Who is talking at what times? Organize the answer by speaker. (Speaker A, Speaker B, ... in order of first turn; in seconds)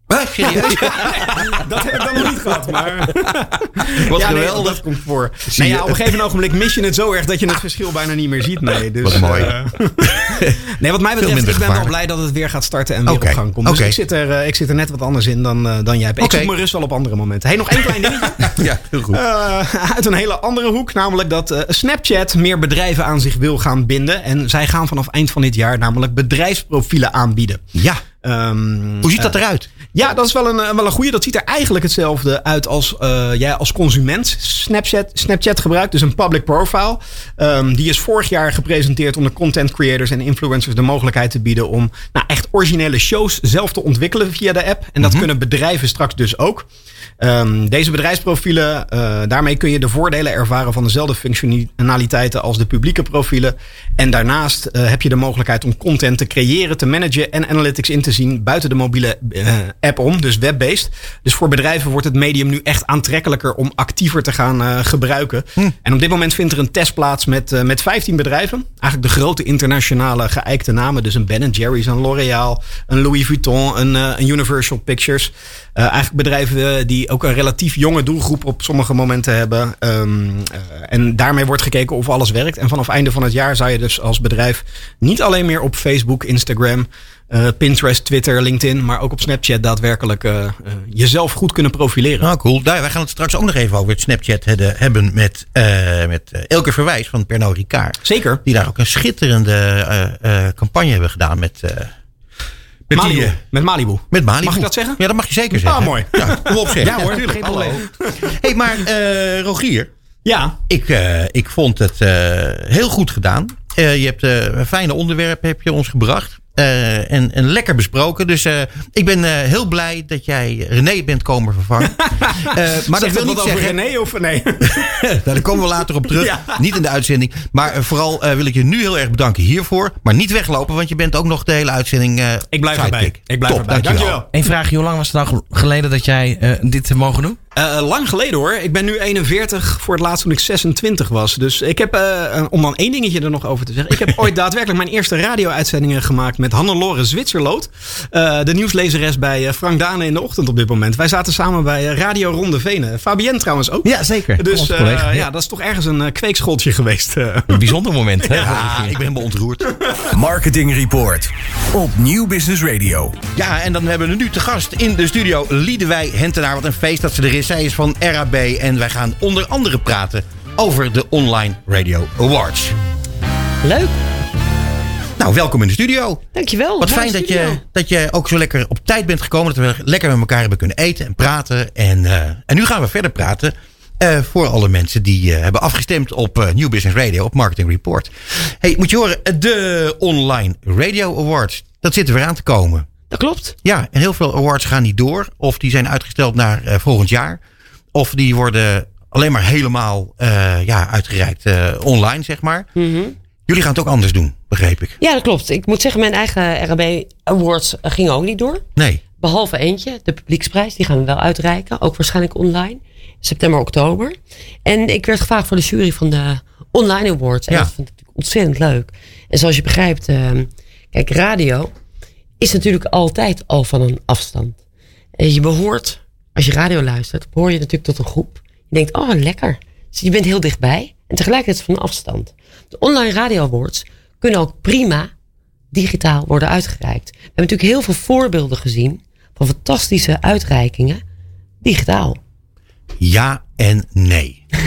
Speaker A: 0.1-1.5, 4.0-4.8, 5.6-6.0, 9.0-9.6, 10.3-10.6, 11.2-11.9, 13.1-14.0, 16.2-16.5, 17.9-19.2, 27.8-28.0, 29.0-29.7, 45.0-45.3, 92.2-101.9, 102.9-103.4, 104.1-109.9, 110.7-123.8, 124.7-134.2, 158.3-159.8, 163.3-172.8, 175.2-176.2, 176.8-192.9, 193.6-197.4, 197.9-202.7, 203.5-205.0, 208.8-209.0, 243.0-244.5
Speaker B: 0.6-27.6, 28.2-29.3, 29.9-46.7, 47.2-92.3, 98.0-98.4, 102.9-105.0, 105.5-108.4, 110.2-110.6, 121.8-125.1, 126.2-126.6, 132.5-134.3, 137.6-158.5
Speaker C: 134.3-137.4, 153.8-155.3, 157.5-159.0
Speaker D: 160.1-163.2
Speaker E: 173.6-173.9, 176.3-177.6, 193.1-193.6, 202.8-203.2, 205.0-208.7, 209.2-221.7, 222.4-224.6, 225.2-235.1, 235.7-241.0, 241.6-242.2